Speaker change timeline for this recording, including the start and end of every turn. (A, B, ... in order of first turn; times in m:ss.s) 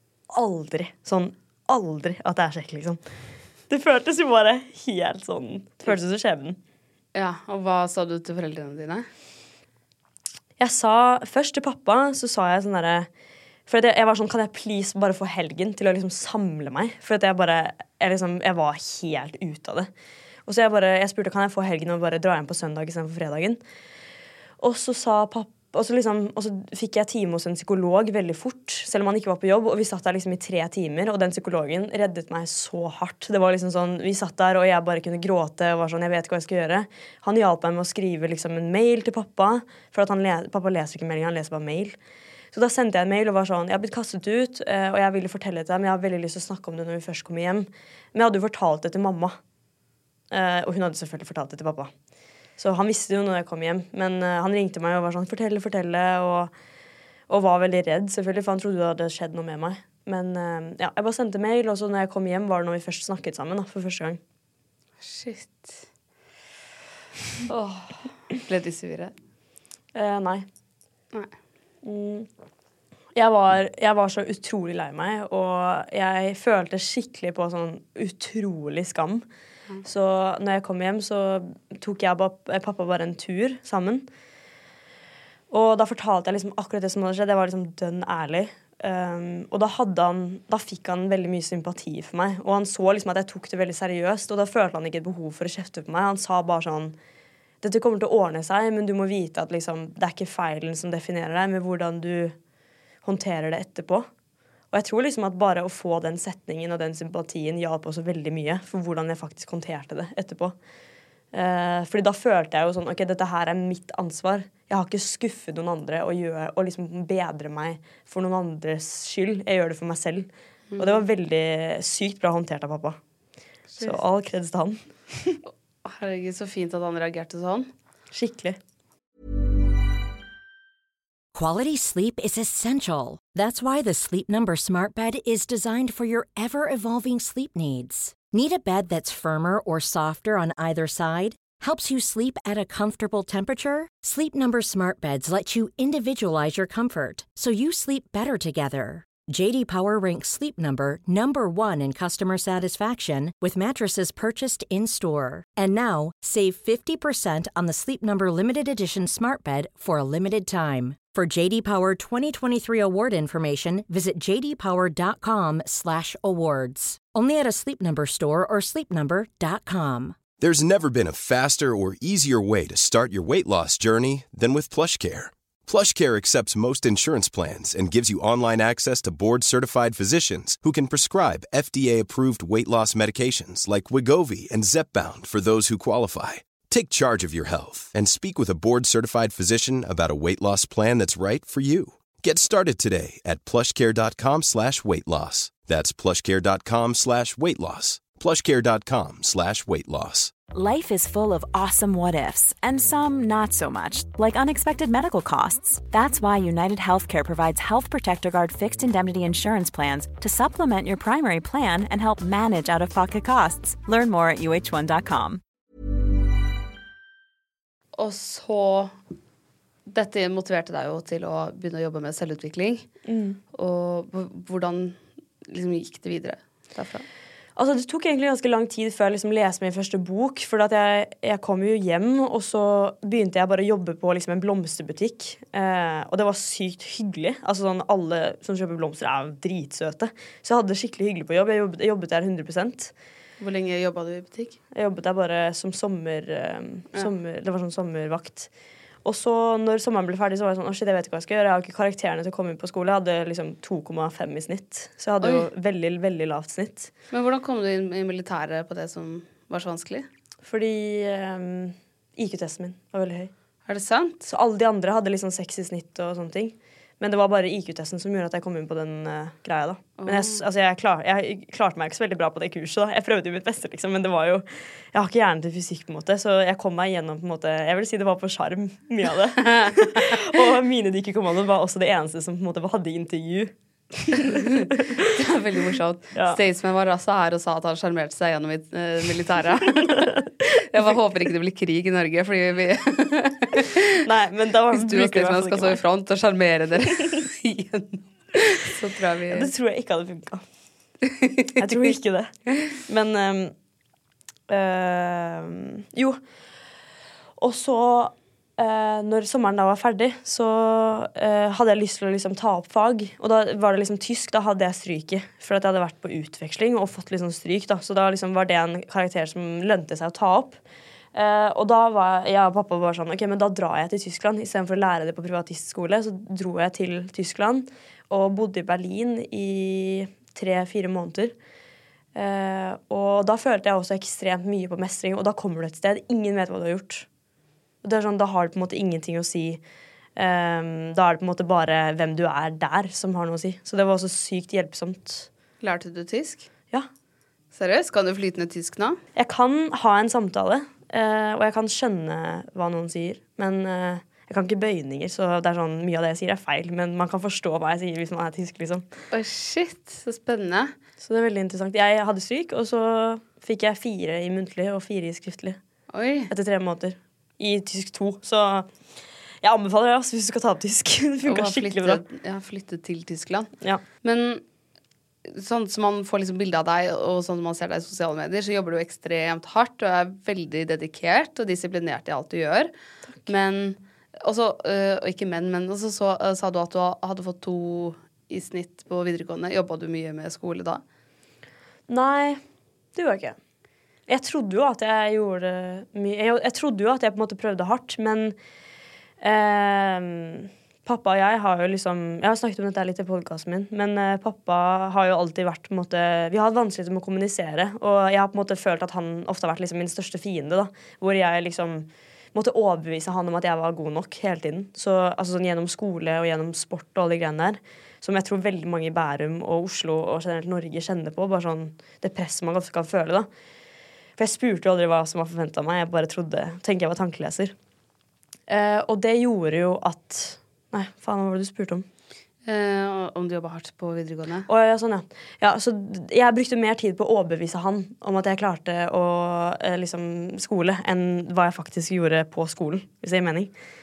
0:00.3-0:03.0 A
0:03.7-0:06.6 A
0:07.1-0:09.1 B
0:10.6-0:13.1 A
0:13.7-0:19.9 A
0:20.5-0:23.6 A
0:24.6-0:42.0 A
0:42.5-0:49.4 A
0:50.3-0:51.9 A
0:52.6-0:56.5 A
0:57.3-1:04.2 A
1:05.0-1:05.9 B
1:07.5-1:09.2 B
1:10.0-1:10.5 A
1:11.8-1:12.3 A
1:13.2-1:19.2 A
1:19.8-1:24.1 A
1:25.5-1:37.0 A
1:37.6-1:42.4 A
1:43.0-1:44.1 A
1:44.7-1:50.6 A
1:51.3-2:03.0 A
2:00.7-2:01.0 B
2:03.7-2:04.0 B
2:03.8-2:05.4 A
2:05.8-2:07.7 B
2:08.1-2:08.6 A
2:11.3-2:50.2 C
2:50.4-3:20.3 D
3:20.5-3:35.4 E
3:38.0-3:38.9 B
3:39.9-3:42.9 B
3:43.0-3:43.4 A
3:43.5-3:47.0 B
3:47.6-4:02.9 A
4:03.4-4:04.6 B
4:04.7-4:08.5 A
4:09.0-4:16.9 A
4:15.2-4:15.5 B
4:17.1-4:20.1 B
4:20.4-4:23.3 A
4:23.7-4:24.2 B
4:24.2-4:43.5 A
4:30.0-4:30.4 B
4:44.0-4:44.9 A
4:44.2-4:54.0 B
4:54.0-4:55.8 A
4:54.7-4:59.5 B
4:59.3-5:00.4 A
5:01.0-5:01.9 B
5:01.6-5:03.6 A
5:04.5-5:06.2 A
5:07.4-5:20.6 A
5:21.1-5:31.4 A
5:32.2-5:37.1 A
5:37.8-5:39.6 A
5:40.2-5:45.3 A
5:45.6-5:46.5 B
5:47.5-5:49.0 B
5:49.2-5:58.9 A
5:59.1-6:00.7 B
6:01.0-6:05.6 A
6:05.9-6:06.3 B
6:06.3-6:08.7 A
6:09.4-6:12.0 A
6:11.3-6:14.4 B
6:15.2-6:22.7 B
6:23.3-6:30.8 B
6:31.9-6:32.4 A
6:33.0-6:33.4 A
6:34.1-6:38.4 A
6:39.2-7:03.3 A
7:04.2-7:07.6 A
7:08.5-7:11.9 A
7:12.4-7:14.5 B
7:14.5-7:23.5 A